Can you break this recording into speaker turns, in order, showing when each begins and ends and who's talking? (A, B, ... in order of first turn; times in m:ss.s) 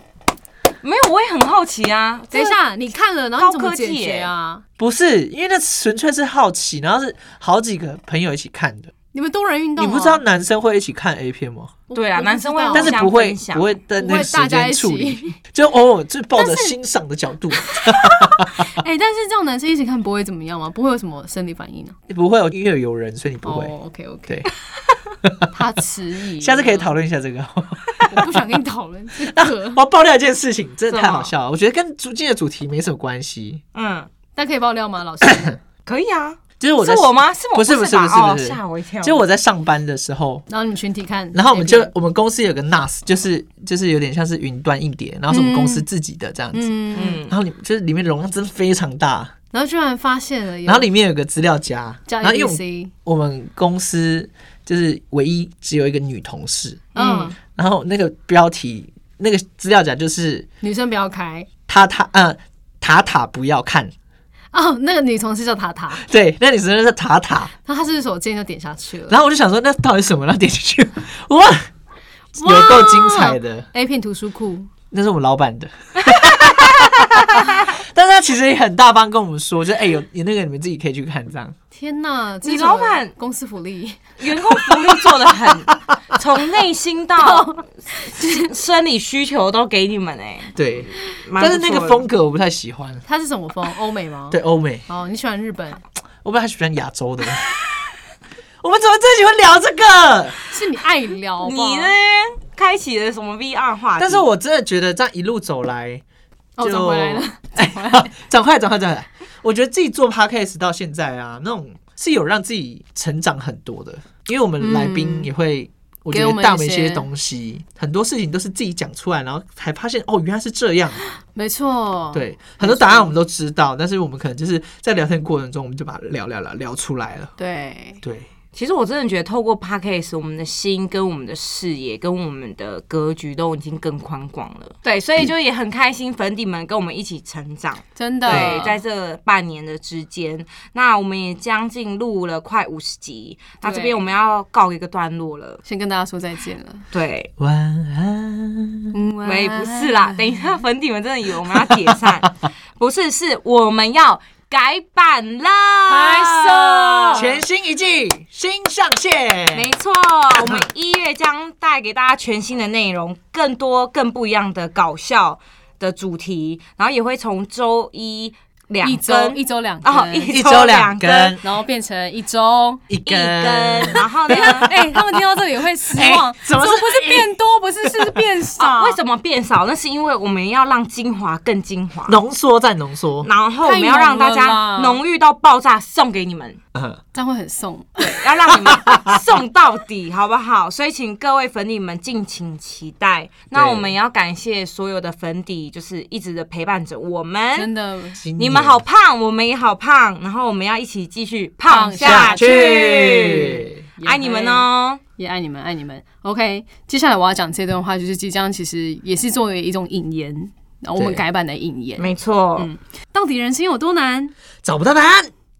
0:00.8-0:02.6 A
0:02.3-0:04.6 B
0:03.4-0:04.3 A
0:04.8-0:08.9 C
0:09.1-0:10.2 B
0:09.8-0:11.8 C
0:11.9-0:13.1 B
0:11.9-0:13.8 A
0:12.7-0:18.7 C
0:14.0-0:15.4 B
0:16.3-0:16.8 B
0:17.7-0:22.0 B
0:22.1-0:23.7 C
0:23.4-0:24.5 B
0:25.5-0:27.0 B
0:26.4-0:28.4 C
0:28.1-0:29.8 B
0:29.2-0:33.6 C
0:30.9-0:31.3 A
0:33.8-0:34.1 A
0:34.3-0:35.6 B
0:35.2-0:35.5 C
0:35.8-0:39.2 A
0:36.6-0:40.4 C
0:40.5-0:41.9 B
0:41.3-0:49.3 C
0:45.3-0:45.9 B
0:46.5-0:47.3 B
0:46.9-0:47.4 A
0:49.5-0:50.9 B
0:50.6-0:56.9 C
0:52.1-0:52.9 B
0:57.0-0:57.3 A
0:57.0-0:57.4 B
0:57.5-1:00.5 C
1:00.6-1:01.5 B
1:01.7-1:03.9 C
1:04.5-1:06.1 B
1:06.0-1:07.5 C
1:07.6-1:09.2 B
1:09.1-1:11.7 C
1:12.3-1:13.7 C
1:12.4-1:14.7 B
1:14.9-1:21.6 C
1:21.7-1:24.0 B
1:22.4-1:23.1 A
1:24.2-1:32.1 A
1:24.7-1:25.0 C
1:27.2-1:28.4 B
1:30.6-1:33.0 C
1:33.0-1:35.8 B
1:34.3-1:34.8 C
1:36.2-1:37.6 C
1:38.6-1:40.4 C
1:40.5-1:42.0 B
1:41.4-1:44.3 A
1:44.0-1:46.0 C
1:46.6-1:48.1 B
1:46.6-2:01.0 C
1:54.6-1:55.3 B
1:56.1-1:57.1 B
2:01.3-2:03.2 B
2:02.1-2:07.3 C
2:07.4-2:08.0 B
2:08.5-2:25.6 A
2:18.0-2:18.8 B
2:18.3-2:18.6 C
2:23.6-2:24.0 B
2:25.6-2:26.9 B
2:26.9-2:27.3 A
2:27.4-2:28.9 C
2:28.9-2:30.5 B
2:29.2-2:37.3 A
2:35.9-2:37.4 B
2:37.1-2:39.8 C
2:39.5-2:51.4 A
2:40.3-2:40.6 C
2:48.8-2:50.4 B
2:50.3-2:51.4 C
2:51.4-2:52.8 B
2:52.9-2:55.0 C
2:53.0-2:54.7 A
2:54.3-2:59.0 B
2:55.9-2:57.3 C
2:57.9-2:58.2 C
2:58.6-3:02.2 A
3:02.1-3:03.3 C
3:03.2-3:06.6 A
3:03.6-3:05.0 B
3:06.7-3:07.0 C
3:07.1-3:08.2 B
3:08.0-3:17.7 A
3:08.7-3:09.2 C
3:13.5-3:13.9 C
3:17.5-3:18.2 B
3:18.2-3:18.8 C
3:18.4-3:25.0 A
3:21.7-3:23.4 B
3:22.0-3:23.7 C
3:24.0-3:34.3 B
3:31.0-3:31.2 C
3:32.0-3:32.7 A
3:34.6-3:35.3 C